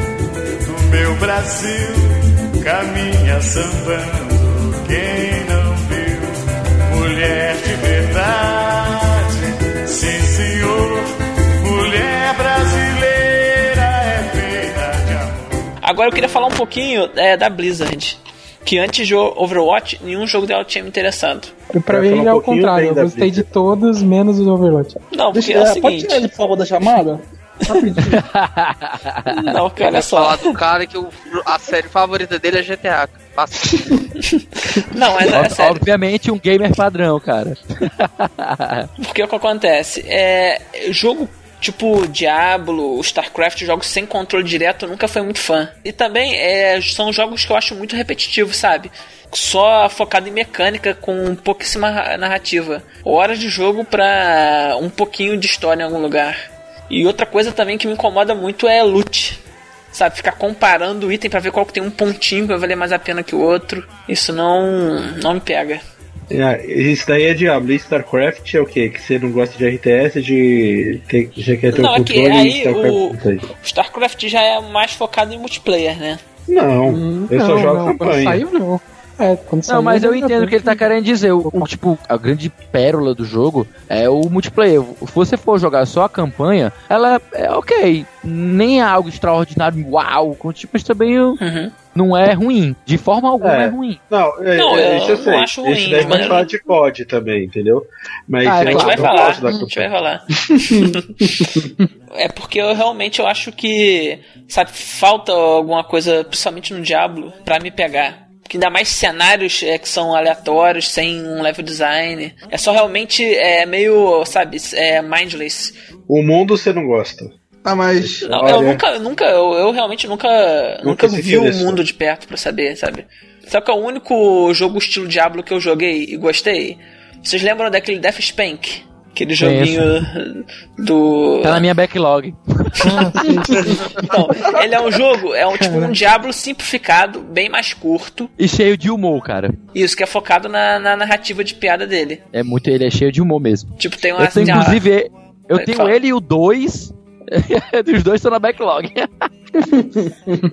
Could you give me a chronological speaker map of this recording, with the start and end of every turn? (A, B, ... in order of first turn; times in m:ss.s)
0:00.6-0:11.1 A
0:11.6-0:15.7 A
0:15.8-0:21.5 B
0:21.7-0:25.0 C
0:21.9-0:23.5 D
0:25.1-0:26.3 B
0:25.3-0:27.2 E
0:27.7-0:28.1 C
0:28.1-0:29.3 F
0:29.3-0:30.6 B
0:29.8-0:34.0 G
0:34.7-0:35.8 B
0:35.3-0:38.9 F
0:39.0-0:59.4 B
0:59.9-1:05.8 B
1:06.3-1:13.4 D
1:11.7-1:16.2 B
1:16.5-1:18.4 D
1:16.8-1:20.9 C
1:19.7-1:31.4 F
1:31.4-1:31.8 B
1:31.9-1:34.0 F
1:33.4-1:39.9 D
1:34.5-1:36.6 B
1:38.4-1:39.2 F
1:38.6-1:41.6 B
1:42.2-1:55.7 B
1:56.1-1:57.3 D
1:57.6-1:58.7 E
1:58.0-1:58.8 D
1:58.2-2:11.7 B
2:00.8-2:01.8 D
2:09.4-2:09.9 F
2:11.4-2:13.4 F
2:12.8-2:14.1 C
2:12.9-2:18.3 B
2:15.5-2:16.0 C
2:18.4-2:19.6 F
2:19.7-2:22.2 B
2:22.3-2:29.1 F
2:23.8-2:24.8 B
2:25.5-2:26.0 B
2:29.8-2:30.1 E